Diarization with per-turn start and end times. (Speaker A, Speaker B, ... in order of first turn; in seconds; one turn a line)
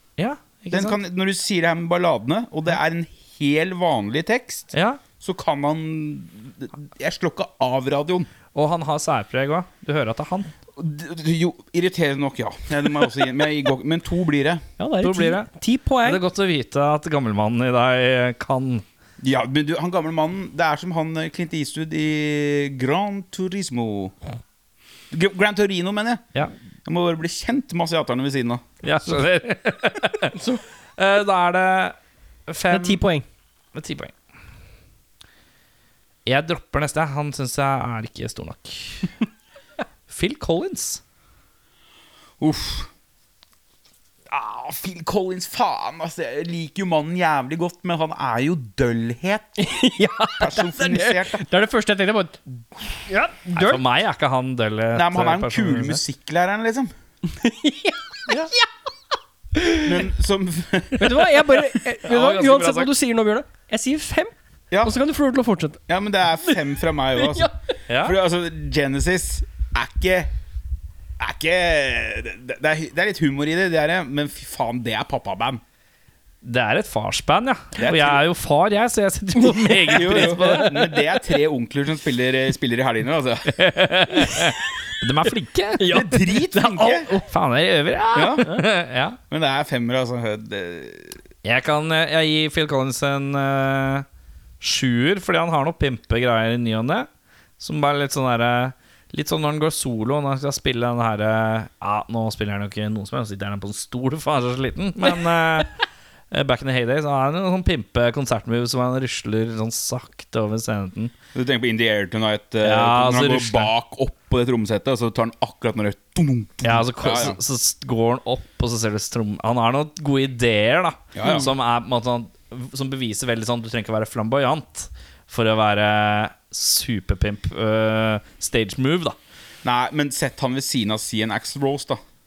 Speaker A: 0.2-1.0
Speaker B: 0.7-8.3
Speaker A: 4.7-5.0
Speaker A: 8.5-10.5
Speaker B: 10.7-14.6
Speaker C: 14.8-16.2
Speaker A: 15.0-15.5
Speaker A: 16.0-18.8
Speaker B: 19.2-24.1
Speaker B: 25.1-26.2
Speaker B: 26.9-29.1
Speaker A: 28.8-30.4
Speaker C: 30.3-30.6
Speaker A: 31.0-32.0
Speaker A: 32.5-33.0
Speaker C: 32.7-33.2
Speaker A: 33.7-34.1
Speaker A: 36.2-39.1
Speaker A: 40.1-41.0
Speaker B: 42.4-42.9
Speaker B: 44.3-49.7
Speaker C: 49.6-53.8
Speaker B: 50.4-51.5
Speaker A: 53.5-56.0
Speaker B: 54.9-56.9
Speaker C: 57.3-58.7
Speaker C: 59.5-59.9
Speaker B: 59.8-61.2
Speaker C: 61.0-65.8
Speaker A: 62.0-62.9
Speaker B: 65.9-70.3
Speaker C: 67.1-67.5
Speaker A: 67.9-68.2
Speaker B: 71.2-75.6
Speaker A: 76.4-80.8
Speaker B: 77.8-78.2
Speaker C: 79.4-80.9
Speaker B: 79.9-83.6
Speaker A: 83.5-86.0
Speaker C: 85.8-87.3
Speaker B: 85.9-87.1
Speaker A: 87.3-89.2
Speaker B: 88.1-88.5
Speaker B: 89.3-91.2
Speaker A: 91.4-94.0
Speaker A: 94.6-97.1
Speaker A: 97.6-105.7
Speaker A: 106.3-111.1
Speaker B: 111.3-117.4
Speaker A: 112.6-113.7
Speaker A: 116.6-129.2
Speaker B: 121.1-121.5
Speaker B: 129.6-132.0